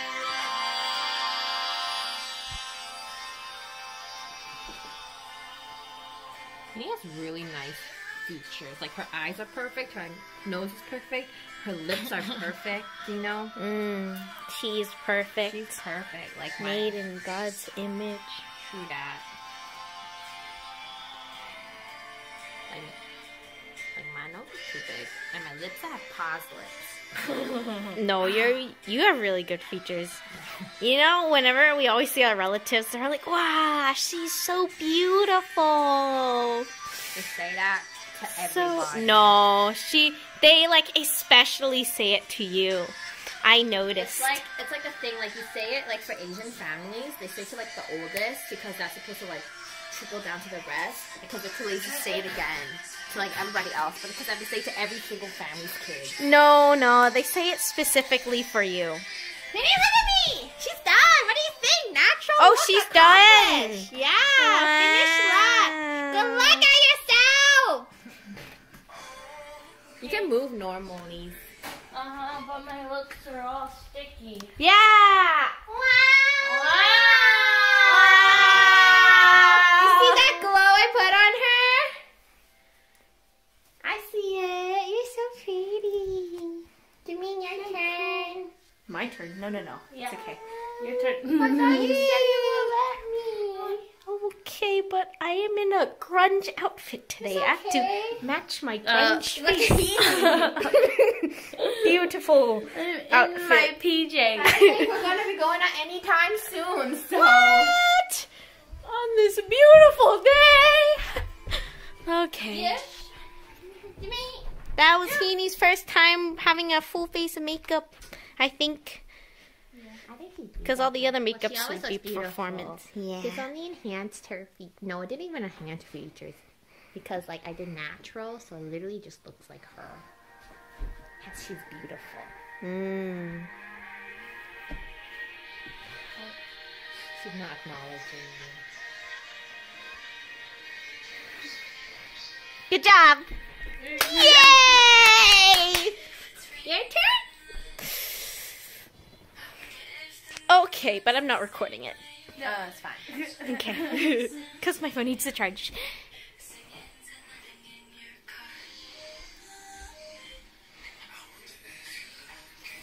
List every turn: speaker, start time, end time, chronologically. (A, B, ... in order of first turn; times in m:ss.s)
0:06.7-0:13.6 A
0:13.6-0:15.7 B
0:15.5-0:17.0 A
0:16.6-0:18.5 B
0:18.6-0:19.3 A
0:22.7-0:23.0 A
0:24.0-0:27.7 A
0:28.0-0:30.2 B
0:30.3-0:30.7 A
0:30.8-0:36.7 B
0:37.1-0:39.4 A
0:38.5-0:44.4 B
0:43.9-0:56.2 A
0:56.2-0:59.0 B
0:59.5-1:07.9 A
1:02.4-1:06.7 B
1:10.0-1:11.4 A
1:11.9-1:14.6 C
1:14.6-1:15.6 B
1:15.7-1:22.0 A
1:16.4-1:18.8 C
1:17.9-1:20.4 B
1:23.8-1:28.5 A
1:28.9-1:30.4 B
1:29.9-1:30.2 C
1:30.8-1:31.8 C
1:31.2-1:33.9 A
1:31.4-1:32.8 B
1:33.8-1:43.8 B
1:37.2-1:38.2 A
1:38.9-1:40.8 A
1:40.0-1:40.8 C
1:41.6-1:41.9 C
1:42.7-1:44.7 C
1:44.3-1:47.8 A
1:44.6-1:45.0 B
1:47.2-1:48.3 B
1:48.8-1:51.2 B
1:52.0-1:52.8 B
1:52.5-1:53.1 A
1:53.6-1:54.5 A
1:54.8-1:59.0 B
1:59.7-2:00.0 C
2:00.1-2:06.4 A
2:00.6-2:03.5 B
2:06.9-2:10.0 A
2:11.2-2:12.3 A
2:12.6-2:13.5 B
2:17.2-2:18.6 A
2:22.7-2:23.3 B
2:23.9-2:24.4 C
2:23.9-2:26.0 B
2:26.6-2:27.3 A
2:30.5-2:32.0 B
2:32.4-2:33.1 A
2:33.1-2:34.3 C
2:33.4-2:36.1 B